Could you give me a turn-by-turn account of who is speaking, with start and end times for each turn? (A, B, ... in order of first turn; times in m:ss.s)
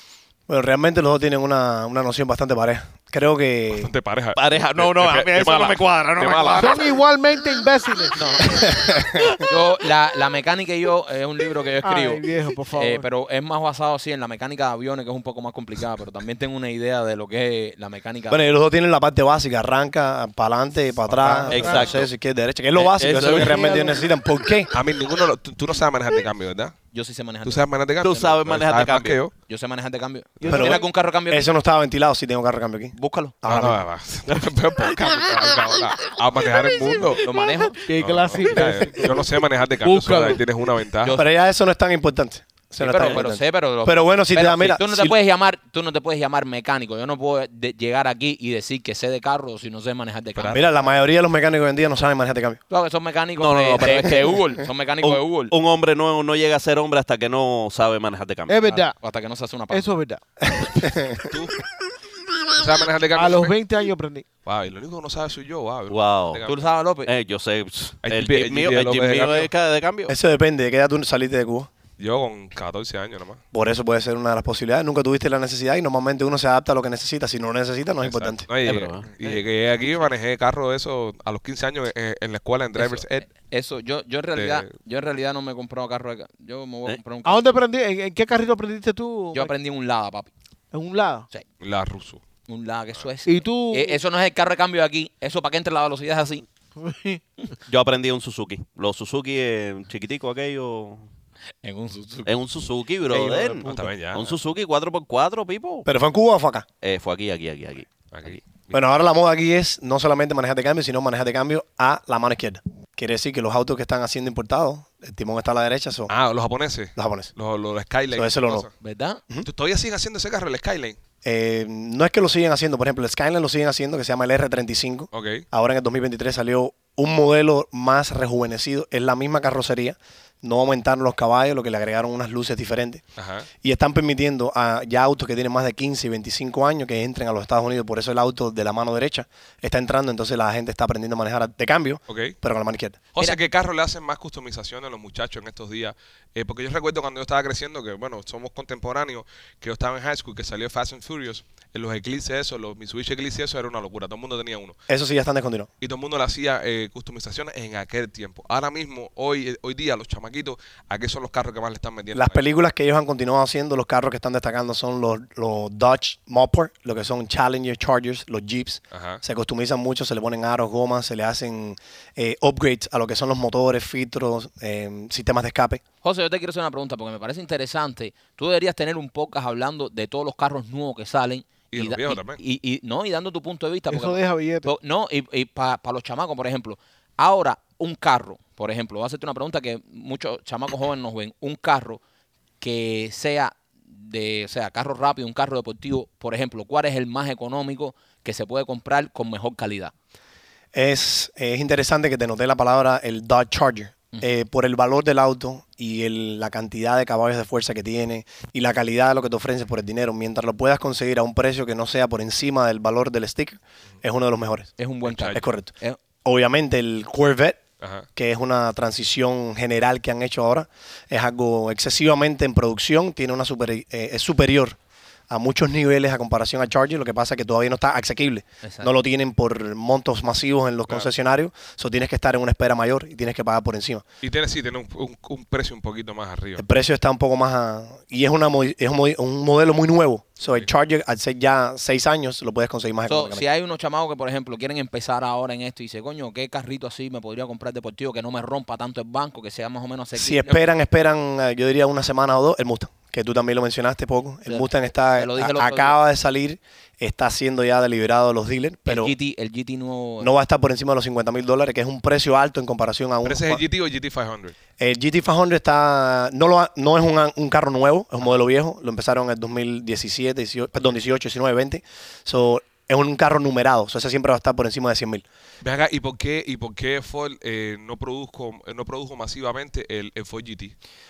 0:00.5-0:03.9 A
0:03.7-0:06.9 B
0:04.3-0:06.9 C
0:06.5-0:08.7 D
0:08.1-0:08.6 E
0:08.5-0:09.4 A
0:09.4-0:18.4 E
0:11.8-0:13.1 D
0:18.3-0:24.7 A
0:21.1-0:22.1 B
0:21.2-0:22.0 D
0:21.5-0:22.1 C
0:22.8-0:23.8 C
0:23.1-0:23.5 B
0:23.3-0:24.0 D
0:24.7-0:26.7 B
0:26.9-0:27.6 E
0:27.4-0:29.3 B
0:28.0-0:29.2 C
0:29.5-0:31.5 E
0:30.4-0:30.8 D
0:30.4-0:33.8 A
0:33.0-0:33.4 E
0:33.4-0:37.2 B
0:37.2-0:37.8 E
0:37.3-0:40.4 D
0:37.9-0:41.2 B
0:41.1-0:45.2 A
0:42.8-0:50.6 E
0:50.5-0:52.6 A
0:52.7-0:55.5 E
0:53.4-0:54.4 C
0:55.0-0:58.8 C
0:58.5-0:59.0 D
0:59.0-0:59.9 E
0:59.7-1:00.2 D
1:00.5-1:01.3 A
1:01.2-1:01.6 B
1:02.5-1:03.6 B
1:03.1-1:04.2 D
1:04.4-1:06.6 B
1:05.9-1:06.5 C
1:06.4-1:07.1 E
1:07.0-1:10.1 C
1:08.0-1:09.5 B
1:10.1-1:11.7 A
1:12.0-1:13.4 B
1:13.5-1:18.5 A
1:18.0-1:23.2 B
1:18.6-1:19.4 C
1:22.8-1:27.4 E
1:24.4-1:24.7 B
1:27.2-1:29.5 D
1:29.3-1:30.3 E
1:30.7-1:31.2 D
1:31.6-1:32.2 B
1:32.5-1:36.4 E
1:33.2-1:34.0 D
1:36.8-1:37.2 D
1:37.6-1:41.1 C
1:41.6-1:42.3 E
1:42.2-1:45.8 C
1:43.1-1:43.6 D
1:43.2-1:43.7 E
1:43.7-1:44.4 B
1:45.8-1:46.7 A
1:46.8-1:48.4 C
1:48.1-1:48.8 B
1:48.7-1:56.1 A
1:56.1-1:58.7 B
1:57.0-1:57.3 A
1:58.1-1:58.7 A
1:58.8-1:59.2 E
1:59.4-2:01.0 B
2:01.2-2:13.0 A
2:05.1-2:05.4 B
2:13.2-2:13.5 B
2:13.6-2:23.0 A
2:22.1-2:22.4 B
2:23.1-2:34.8 B
2:34.9-2:35.7 A
2:35.8-2:42.4 B
2:42.1-2:55.8 A
2:48.9-2:49.2 B
2:56.0-3:12.0 E
3:01.7-3:02.4 B
3:03.9-3:04.7 D
3:12.6-3:19.9 E
3:20.7-3:34.7 A
3:34.8-3:36.0 E
3:35.1-3:35.4 B
3:35.3-3:37.6 A
3:37.8-3:38.0 B
3:38.2-3:44.8 A
3:45.3-3:54.0 A
3:48.6-3:48.9 E
3:54.2-3:56.6 B
3:56.6-4:03.4 A
4:00.4-4:00.7 B
4:03.1-4:10.6 E
4:10.1-4:19.1 A
4:14.5-4:16.0 E
4:18.8-4:20.3 E
4:20.2-4:23.6 A
4:23.2-4:24.6 B
4:24.8-4:35.2 A
4:35.6-4:40.7 B